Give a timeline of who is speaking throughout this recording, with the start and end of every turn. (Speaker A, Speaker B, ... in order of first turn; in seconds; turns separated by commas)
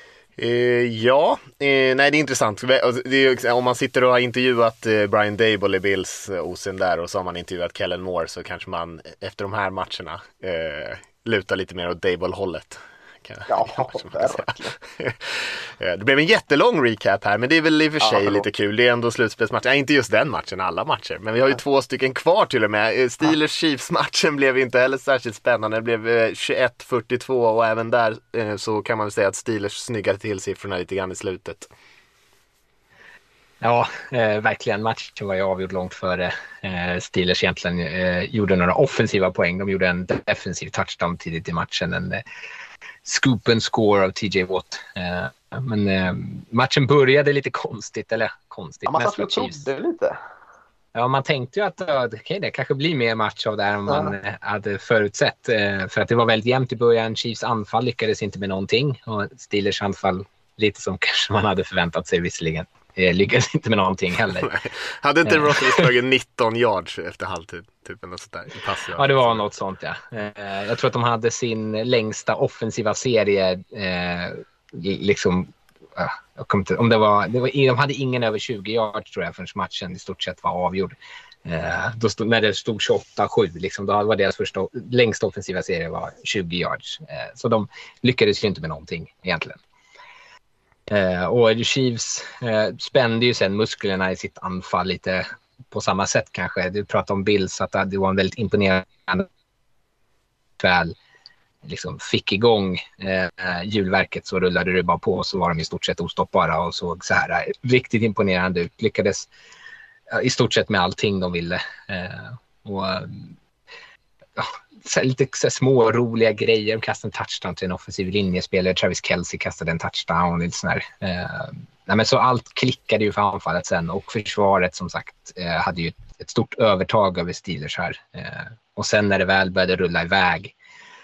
Speaker A: 0.4-31.7, Speaker B: 13.5-14.7, Speaker B: 18.0-18.4, Speaker C: 33.6-42.2, Speaker C: 43.0-49.6, Speaker B: 48.9-50.2, Speaker C: 50.9-64.5, Speaker B: 53.9-54.1, Speaker A: 64.3-69.5, Speaker C: 65.2-65.9, Speaker C: 69.0-89.6, Speaker C: 90.9-99.3, Speaker C: 100.6-101.0, Speaker C: 101.6-109.3, Speaker C: 110.1-113.3, Speaker C: 114.3-130.5